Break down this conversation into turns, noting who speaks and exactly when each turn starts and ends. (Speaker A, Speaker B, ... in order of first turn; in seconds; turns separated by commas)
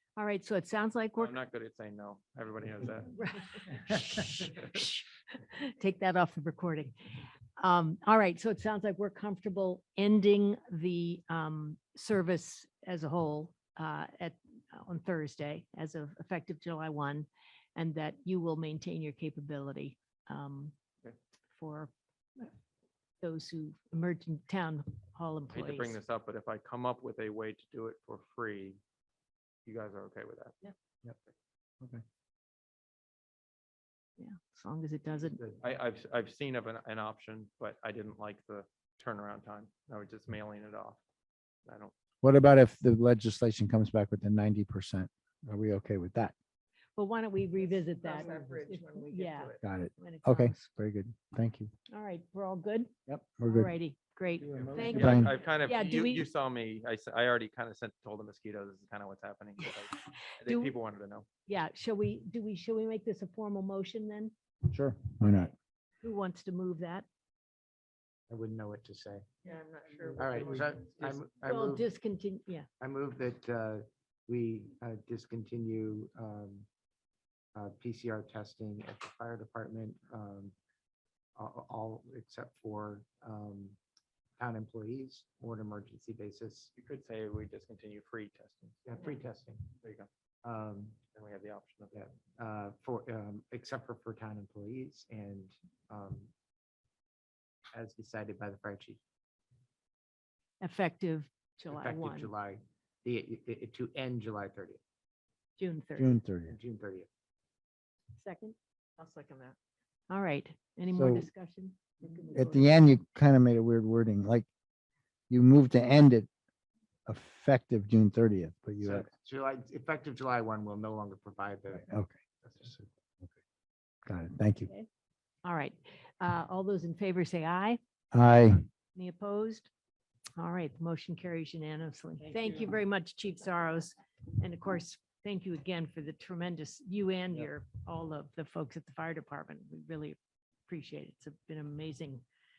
Speaker A: 0.1-1.4, Speaker B: 1.2-3.2, Speaker A: 3.1-6.9, Speaker A: 7.6-20.7, Speaker A: 21.6-22.5, Speaker A: 23.2-26.0, Speaker B: 25.5-28.8, Speaker B: 29.6-30.5, Speaker A: 34.2-35.4, Speaker B: 35.6-41.0, Speaker B: 41.6-41.9, Speaker C: 42.2-46.3, Speaker A: 47.0-50.7, Speaker D: 47.6-49.6, Speaker C: 49.6-51.7, Speaker A: 51.9-52.9, Speaker C: 53.1-53.7, Speaker A: 53.5-56.2, Speaker B: 54.5-61.2, Speaker C: 54.9-55.3, Speaker A: 60.4-60.7, Speaker A: 61.5-64.3, Speaker C: 64.7-65.5, Speaker A: 66.0-67.0, Speaker E: 68.3-69.2, Speaker D: 69.4-71.1, Speaker E: 70.2-71.9, Speaker A: 71.4-72.7, Speaker E: 72.8-76.7, Speaker E: 77.5-80.5, Speaker E: 81.3-83.8, Speaker E: 84.4-86.7, Speaker B: 86.7-88.8, Speaker E: 88.8-89.6, Speaker B: 89.8-90.1, Speaker E: 90.4-91.0, Speaker B: 91.1-92.0, Speaker E: 91.9-96.3, Speaker E: 97.7-99.0, Speaker A: 100.6-102.3, Speaker E: 101.7-104.8, Speaker A: 105.6-106.1, Speaker C: 106.0-106.6, Speaker E: 106.5-107.1, Speaker A: 108.2-108.5, Speaker D: 109.0-109.5, Speaker A: 110.1-112.8, Speaker C: 110.9-111.3, Speaker C: 112.3-114.5, Speaker C: 115.3-116.3, Speaker C: 117.1-119.1, Speaker E: 118.8-121.8, Speaker C: 121.7-122.1, Speaker E: 122.4-122.9, Speaker C: 124.0-124.7, Speaker A: 125.4-127.8, Speaker C: 128.1-128.7, Speaker A: 128.9-129.7, Speaker A: 130.4-142.2